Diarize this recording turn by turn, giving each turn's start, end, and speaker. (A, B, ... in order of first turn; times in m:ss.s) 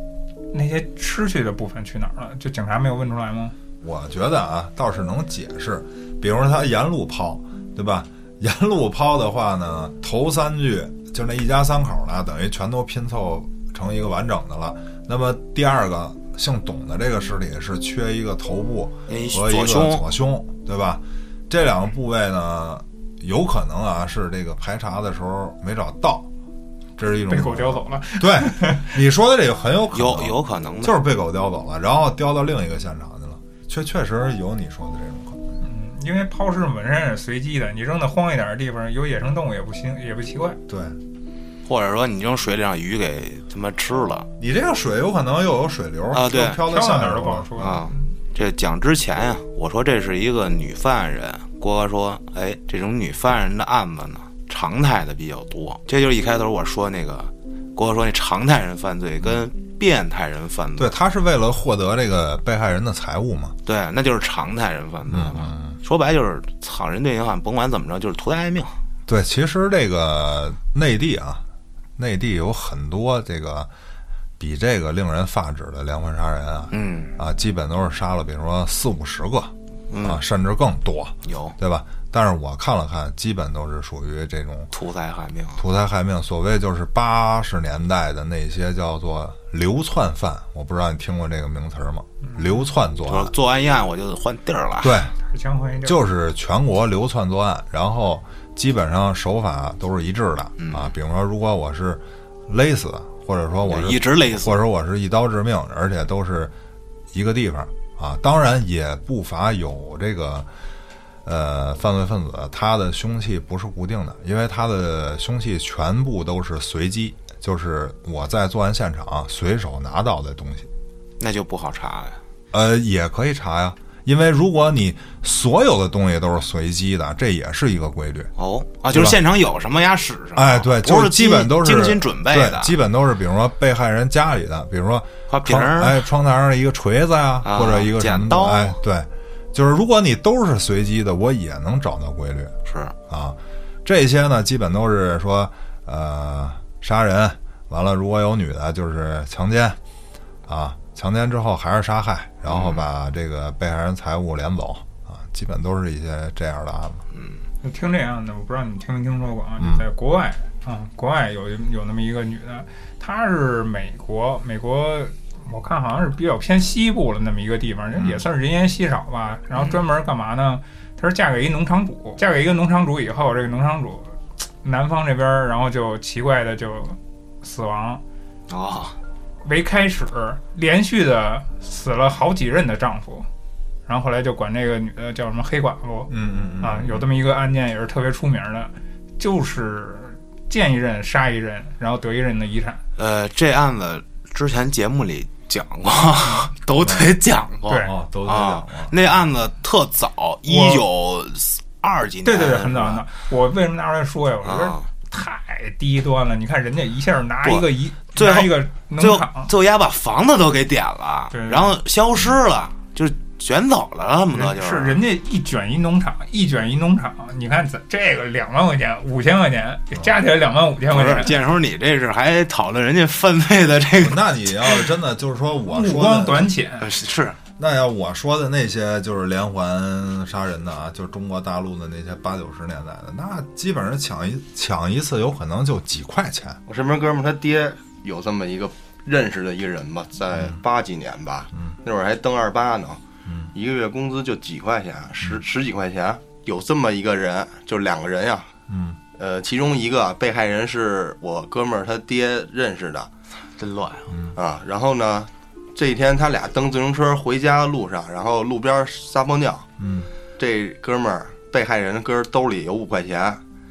0:00.5-0:03.6 A
0:03.8-0:26.3 B
0:19.1-0:20.0 C
0:27.0-0:35.5 B
0:27.2-0:29.0 A
0:29.9-0:31.0 C
0:35.6-0:40.6 A
0:40.7-0:41.0 B
0:41.6-0:44.3 C
0:44.4-0:47.8 B
0:46.1-0:46.6 C
0:46.5-0:48.1 A
0:47.6-1:00.9 C
1:00.8-1:03.6 B
1:03.7-1:08.8 C
1:05.1-1:05.8 B
1:09.1-1:11.4 B
1:12.0-1:13.7 B
1:14.4-1:24.7 B
1:16.7-1:17.2 C
1:19.9-1:20.2 C
1:21.2-1:21.6 C
1:24.7-1:25.6 C
1:25.6-1:33.3 B
1:32.2-1:32.7 A
1:33.1-1:34.9 C
1:34.8-1:35.1 B
1:35.2-1:36.0 A
1:35.8-1:46.5 B
1:40.6-1:40.9 C
1:43.6-1:44.6 C
1:47.1-1:50.5 B
1:51.2-2:00.7 B
2:01.2-2:02.2 C
2:02.5-2:08.3 B
2:08.4-2:12.8 C
2:08.9-2:09.2 B
2:10.4-2:22.5 B
2:15.3-2:16.0 C
2:17.4-2:18.8 C
2:22.7-2:23.0 C
2:23.1-2:29.8 B
2:30.5-2:37.0 B
2:32.5-2:32.8 C
2:37.1-2:37.4 C
2:37.6-2:58.0 A
2:39.6-2:39.9 B
2:48.0-2:48.2 B
2:58.5-2:59.0 C
2:59.4-3:03.3 A
3:03.9-3:12.8 A
3:06.1-3:07.0 B
3:13.0-3:23.0 C
3:16.8-3:17.1 B
3:17.7-3:17.9 A
3:17.8-3:19.0 B
3:20.5-3:20.8 A
3:22.2-3:29.5 A
3:24.4-3:24.9 C
3:27.4-3:35.0 C
3:31.3-3:31.8 A
3:34.3-3:41.4 A
3:40.9-3:44.8 C
3:44.0-3:46.5 B
3:45.7-3:46.9 A
3:46.8-3:47.4 C
3:47.6-3:56.6 B
3:56.7-4:08.5 D
4:00.3-4:00.6 B
4:03.3-4:03.5 B
4:08.7-4:09.0 B
4:09.2-4:13.1 D
4:13.6-4:14.1 C
4:14.1-4:14.4 B
4:14.4-4:19.7 D
4:19.8-4:20.1 B
4:20.4-4:23.4 D